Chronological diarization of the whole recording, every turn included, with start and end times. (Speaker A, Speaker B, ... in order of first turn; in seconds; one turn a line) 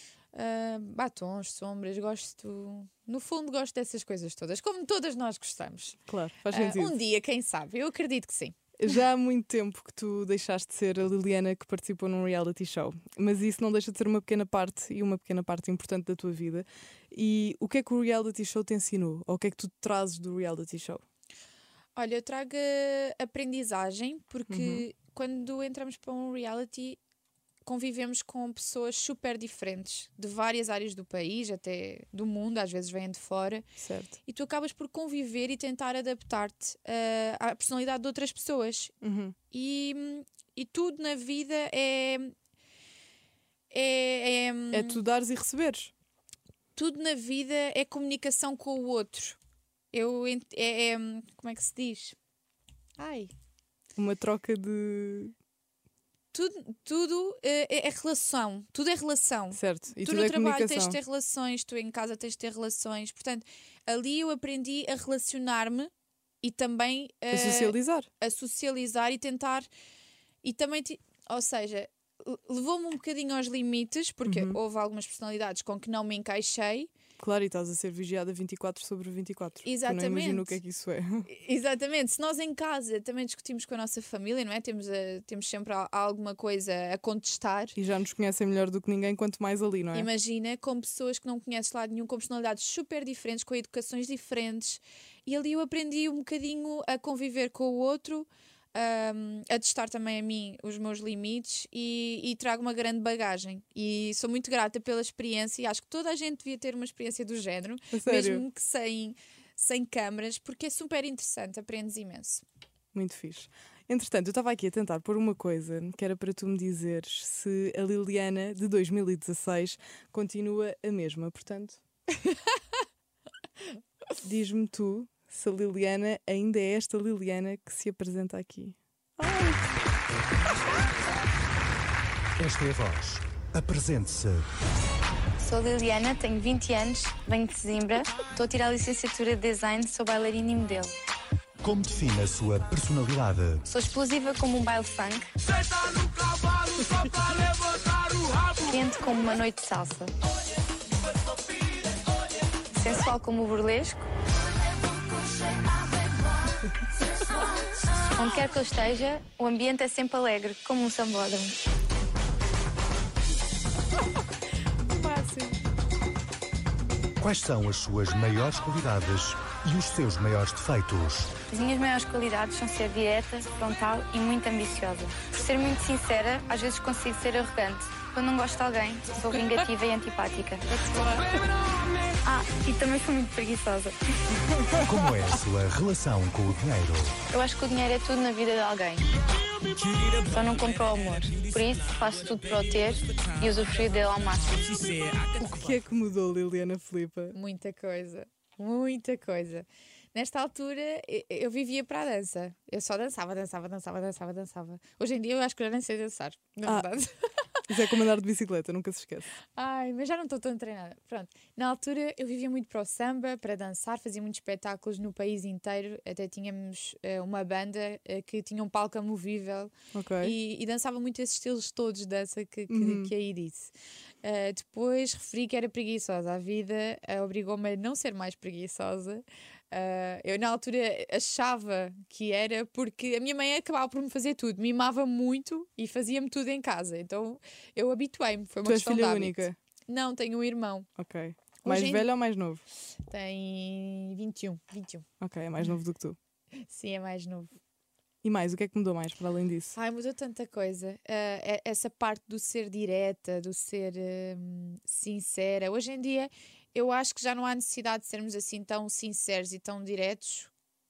Speaker A: 0.3-8.6
Speaker B: 6.1-7.0
Speaker B: 8.8-21.0
Speaker A: 21.9-27.0
Speaker B: 24.5-24.8
Speaker A: 27.6-33.7
Speaker B: 33.8-34.1
Speaker A: 34.3-38.9
Speaker B: 39.0-39.3
Speaker A: 39.5-42.3
Speaker A: 43.7-45.0
Speaker B: 44.7-45.9
Speaker A: 46.8-49.4
Speaker A: 49.9-52.1
Speaker A: 53.0-53.3
Speaker B: 54.0-55.3
Speaker A: 56.3-65.9
Speaker B: 59.5-61.0
Speaker A: 66.4-69.7
Speaker B: 67.3-68.1
Speaker A: 70.4-76.9
Speaker B: 74.2-74.6
Speaker B: 77.2-81.3
Speaker A: 79.6-80.6
Speaker A: 81.3-87.8
Speaker B: 87.8-90.1
Speaker A: 89.9-112.4
Speaker B: 107.9-108.4
Speaker B: 112.9-121.8
Speaker B: 124.2-129.6
Speaker C: 132.4-134.5
Speaker D: 135.4-140.9
Speaker C: 141.6-143.6
Speaker D: 143.7-145.3
Speaker D: 148.6-150.1
Speaker D: 152.8-154.1
Speaker D: 158.2-161.5
Speaker A: 164.9-165.6
Speaker C: 167.2-171.3
Speaker D: 171.5-180.6
Speaker A: 179.3-179.7
Speaker A: 180.7-181.2
Speaker D: 182.3-183.9
Speaker C: 184.8-187.2
Speaker D: 187.3-189.0
Speaker D: 190.2-194.8
Speaker B: 195.3-197.3
Speaker A: 197.3-207.6
Speaker B: 207.7-209.3
Speaker A: 209.5-223.7
Speaker B: 219.9-220.3
Speaker B: 222.7-223.1
Speaker A: 224.2-240.9
Speaker B: 238.6-239.6
Speaker B: 241.0-242.6
Speaker A: 241.6-242.1
Speaker A: 243.1-245.1
Speaker B: 245.2-246.2
Speaker A: 246.6-247.6
Speaker B: 248.2-249.8
Speaker A: 249.7-260.5